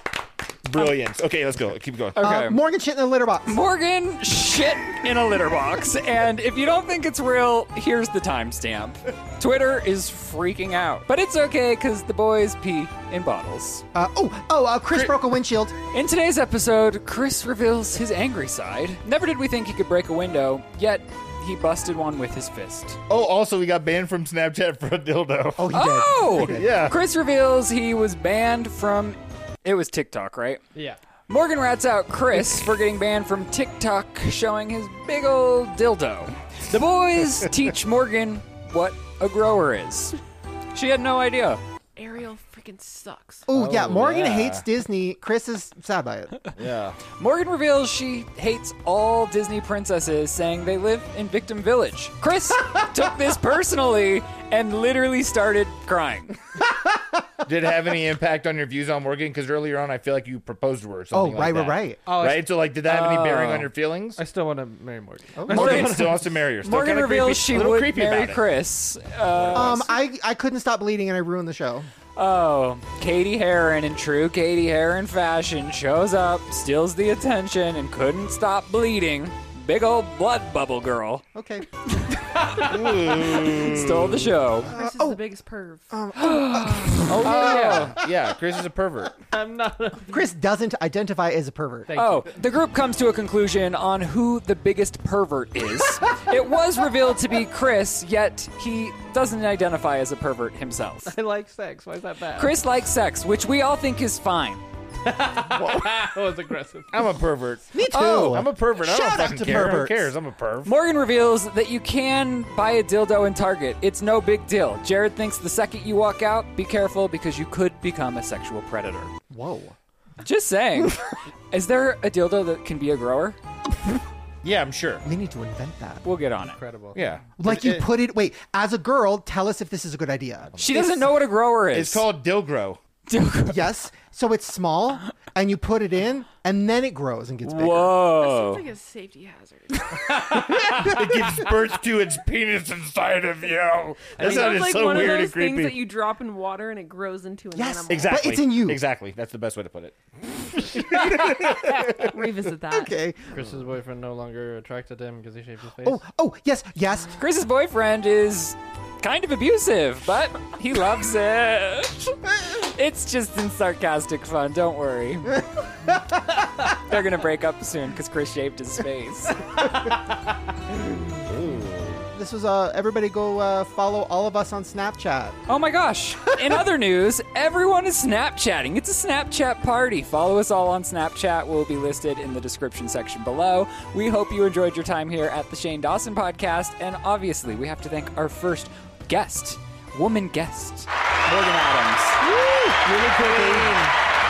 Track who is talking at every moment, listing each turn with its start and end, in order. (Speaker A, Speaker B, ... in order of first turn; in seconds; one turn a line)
Speaker A: 0.6-2.2
Speaker B: 2.1-2.6
Speaker C: 2.1-3.6
Speaker B: 3.5-13.8
Speaker C: 13.9-15.7
Speaker B: 15.9-23.0
Speaker A: 23.1-26.9
Speaker C: 25.6-26.8
Speaker B: 25.7-30.6
Speaker B: 31.3-40.2
Speaker B: 40.7-41.6
Speaker D: 42.0-43.5
Speaker C: 43.5-46.4
Speaker A: 43.5-44.6
Speaker A: 46.5-47.0
Speaker B: 47.2-56.4
Speaker A: 57.4-64.2
Speaker C: 61.1-62.0
Speaker E: 62.0-62.5
Speaker B: 62.9-63.7
Speaker E: 64.2-66.3
Speaker C: 65.3-65.9
Speaker A: 65.5-68.4
Speaker B: 65.6-65.9
Speaker B: 66.6-69.9
Speaker A: 69.3-69.8
Speaker C: 69.5-71.9
Speaker B: 72.2-81.2
Speaker C: 81.3-81.7
Speaker A: 82.5-84.4
Speaker B: 83.0-84.7
Speaker C: 84.7-85.2
Speaker D: 84.7-86.0
Speaker C: 85.9-87.2
Speaker B: 86.2-88.0
Speaker A: 87.0-89.2
Speaker E: 87.2-88.1
Speaker E: 89.2-90.2
Speaker C: 90.1-91.9
Speaker E: 91.9-92.3
Speaker B: 91.9-101.2
Speaker E: 101.0-102.5
Speaker B: 102.3-104.6
Speaker E: 105.0-107.1
Speaker A: 105.5-106.2
Speaker A: 106.9-110.7
Speaker C: 107.7-110.1
Speaker B: 110.6-119.1
Speaker C: 119.3-119.8
Speaker B: 120.2-123.4
Speaker A: 124.4-125.0
Speaker C: 125.0-126.0
Speaker B: 126.0-126.6
Speaker E: 126.5-127.0
Speaker A: 126.9-127.9
Speaker C: 127.4-131.1
Speaker A: 130.5-131.1
Speaker B: 130.6-132.1
Speaker A: 131.7-132.8
Speaker B: 133.1-133.7
Speaker C: 133.5-138.0
Speaker B: 137.4-138.7
Speaker D: 138.2-140.2
Speaker A: 140.2-145.8
Speaker E: 144.2-145.1
Speaker D: 144.2-148.3
Speaker C: 147.5-148.8
Speaker A: 147.9-152.1
Speaker C: 151.1-153.4
Speaker D: 151.9-152.9
Speaker E: 153.3-156.0
Speaker C: 155.8-157.2
Speaker B: 157.2-165.4
Speaker B: 166.6-169.5
Speaker A: 171.2-172.0
Speaker C: 172.1-175.4
Speaker B: 175.5-192.2
Speaker A: 192.8-193.8
Speaker E: 193.1-193.9